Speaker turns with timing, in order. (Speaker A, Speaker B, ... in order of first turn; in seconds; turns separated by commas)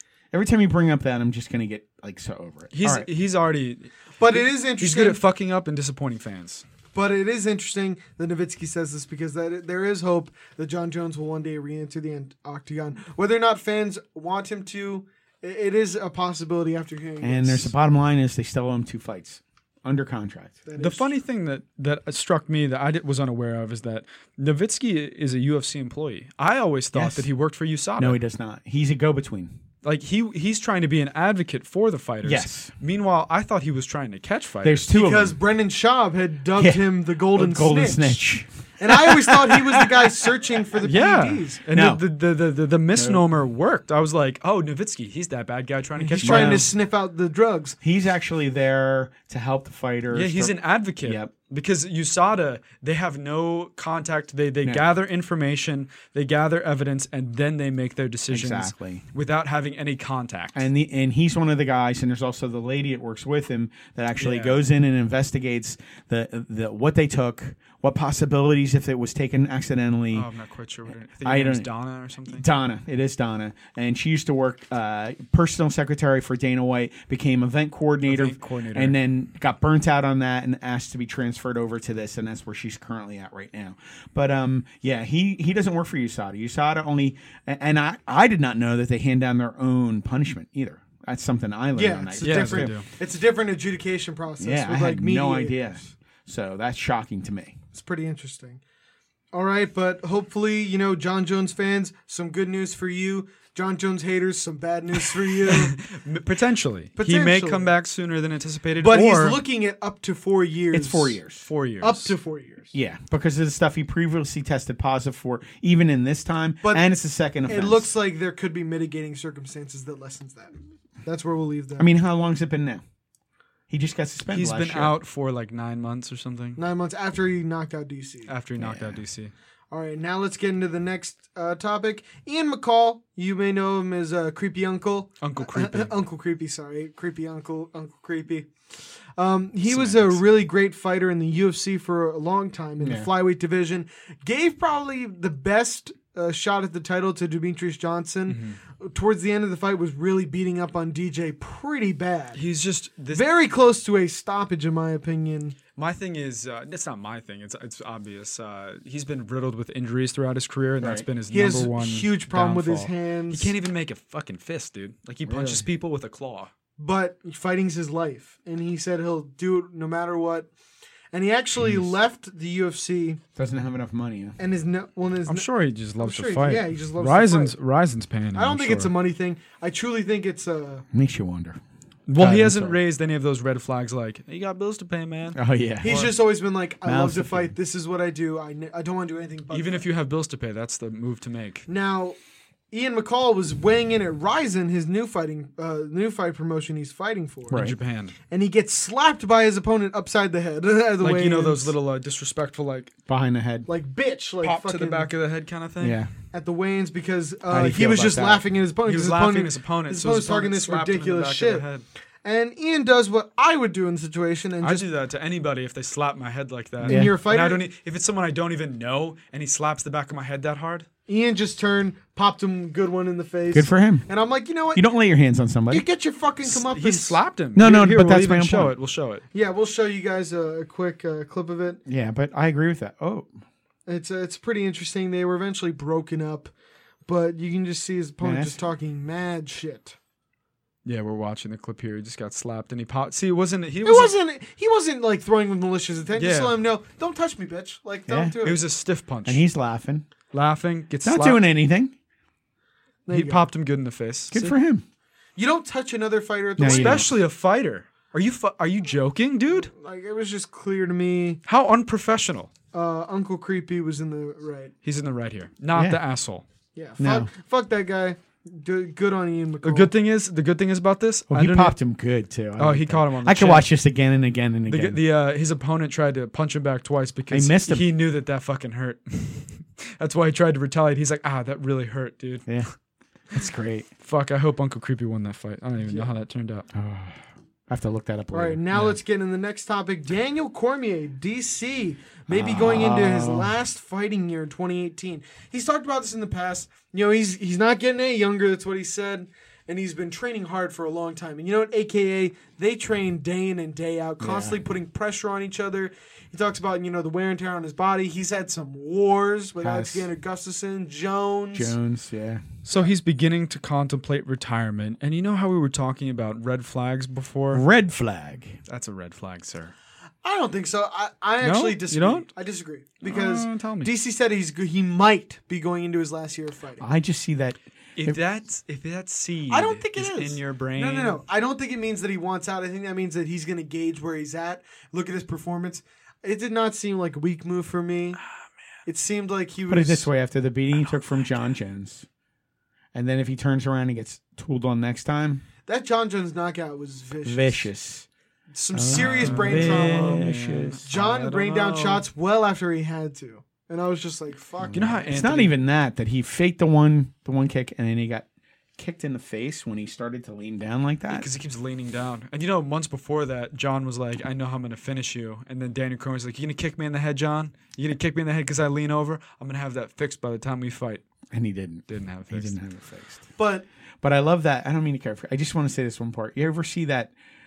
Speaker A: 0.3-3.1, Speaker B: 2.7-6.7, Speaker C: 4.2-5.2, Speaker C: 6.9-17.7, Speaker A: 17.2-20.6, Speaker C: 20.7-21.1, Speaker B: 20.8-28.2, Speaker A: 26.9-27.2, Speaker A: 28.0-29.5, Speaker B: 29.8-34.9, Speaker A: 32.2-32.7, Speaker A: 34.6-35.4, Speaker C: 34.9-38.3, Speaker A: 36.6-39.9, Speaker C: 38.8-41.6, Speaker B: 40.8-46.7, Speaker A: 41.7-42.0, Speaker A: 42.9-43.2, Speaker C: 46.0-47.8, Speaker A: 46.2-46.7, Speaker A: 47.8-51.3, Speaker B: 50.1-60.7, Speaker A: 58.3-59.0, Speaker A: 60.5-70.3, Speaker B: 64.2-64.6, Speaker B: 70.1-72.5, Speaker A: 71.2-71.7, Speaker A: 72.3-92.7, Speaker B: 78.0-79.0, Speaker C: 91.7-95.6, Speaker B: 92.2-92.9, Speaker A: 94.4-97.6, Speaker C: 97.7-98.6, Speaker C: 99.3-105.9, Speaker B: 105.5-109.4, Speaker C: 107.0-107.7, Speaker C: 108.8-111.2, Speaker A: 110.7-111.5, Speaker B: 111.5-112.2, Speaker C: 111.8-112.7, Speaker A: 112.7-117.9, Speaker C: 116.6-116.9, Speaker C: 117.5-121.9, Speaker A: 121.8-122.8, Speaker A: 123.7-125.0, Speaker B: 124.3-126.6, Speaker C: 126.6-128.3, Speaker B: 128.3-129.3, Speaker A: 128.6-129.0, Speaker C: 129.7-138.5, Speaker B: 135.2-135.9, Speaker C: 139.2-152.4, Speaker B: 139.7-140.2, Speaker A: 142.8-143.1, Speaker B: 148.3-148.6, Speaker B: 152.3-153.3, Speaker C: 153.1-155.6, Speaker B: 155.8-166.5, Speaker A: 160.8-161.1, Speaker C: 161.3-163.5, Speaker A: 165.3-165.7, Speaker C: 166.8-170.5, Speaker C: 171.1-173.2, Speaker A: 173.4-174.4, Speaker C: 174.4-177.6, Speaker B: 175.3-178.9, Speaker C: 178.3-180.8, Speaker A: 180.9-181.6, Speaker B: 182.1-185.4, Speaker A: 182.2-182.8, Speaker A: 185.3-186.1, Speaker C: 185.8-189.9, Speaker A: 186.8-187.5, Speaker B: 189.5-191.7, Speaker C: 191.7-192.2, Speaker C: 192.7-197.6, Speaker A: 197.5-197.8, Speaker B: 197.5-198.2, Speaker C: 198.3-201.7, Speaker B: 201.0-202.9, Speaker A: 203.1-203.7, Speaker C: 203.7-205.1, Speaker B: 204.4-206.0, Speaker A: 205.8-206.1, Speaker C: 206.3-211.7, Speaker A: 207.5-208.4, Speaker B: 208.8-211.8, Speaker C: 212.2-214.8, Speaker B: 214.6-220.9, Speaker A: 216.8-217.2, Speaker C: 216.8-217.7, Speaker C: 221.1-224.9, Speaker A: 223.5-224.1, Speaker A: 224.8-225.8, Speaker C: 225.7-227.2, Speaker B: 226.4-229.2, Speaker A: 227.6-228.7, Speaker C: 229.3-231.8, Speaker A: 231.9-233.3, Speaker C: 233.9-236.5, Speaker C: 237.1-240.0, Speaker A: 238.2-238.6, Speaker B: 240.8-244.1, Speaker C: 243.8-248.6, Speaker B: 246.2-246.6, Speaker A: 248.1-248.3, Speaker B: 248.4-249.4, Speaker A: 249.2-250.1, Speaker B: 250.3-251.4, Speaker A: 251.0-251.9, Speaker C: 253.1-253.5, Speaker B: 253.1-254.6, Speaker A: 254.3-254.8, Speaker C: 255.4-257.1, Speaker A: 256.6-257.1, Speaker B: 256.7-259.7, Speaker C: 259.5-261.4, Speaker B: 261.5-262.5, Speaker C: 262.7-264.7, Speaker B: 264.8-266.4, Speaker A: 265.7-266.0, Speaker C: 266.8-269.9, Speaker A: 267.0-267.3, Speaker B: 269.6-271.8, Speaker A: 271.3-275.0, Speaker B: 272.6-273.7, Speaker B: 274.7-282.5, Speaker A: 277.3-277.9, Speaker A: 283.3-283.9, Speaker B: 284.0-286.7, Speaker A: 286.7-288.9, Speaker C: 288.3-311.8, Speaker A: 292.3-293.5, Speaker A: 304.2-304.6, Speaker A: 309.6-310.1, Speaker A: 311.5-312.4, Speaker B: 312.6-317.6, Speaker A: 317.5-318.6, Speaker B: 318.7-319.7, Speaker C: 320.2-326.8, Speaker B: 321.4-322.3, Speaker B: 323.0-323.9, Speaker A: 326.8-328.2, Speaker B: 328.0-331.2, Speaker C: 329.5-338.2, Speaker C: 338.9-340.1, Speaker A: 339.7-342.1, Speaker A: 342.9-345.4, Speaker C: 345.7-347.7, Speaker A: 347.2-348.1, Speaker C: 348.5-350.3, Speaker A: 348.7-350.8, Speaker B: 348.9-352.1, Speaker C: 350.9-355.1, Speaker A: 354.6-361.3, Speaker B: 354.8-355.6, Speaker B: 361.1-371.0, Speaker A: 371.3-373.3, Speaker B: 371.9-372.6, Speaker C: 373.4-373.6, Speaker A: 374.0-377.1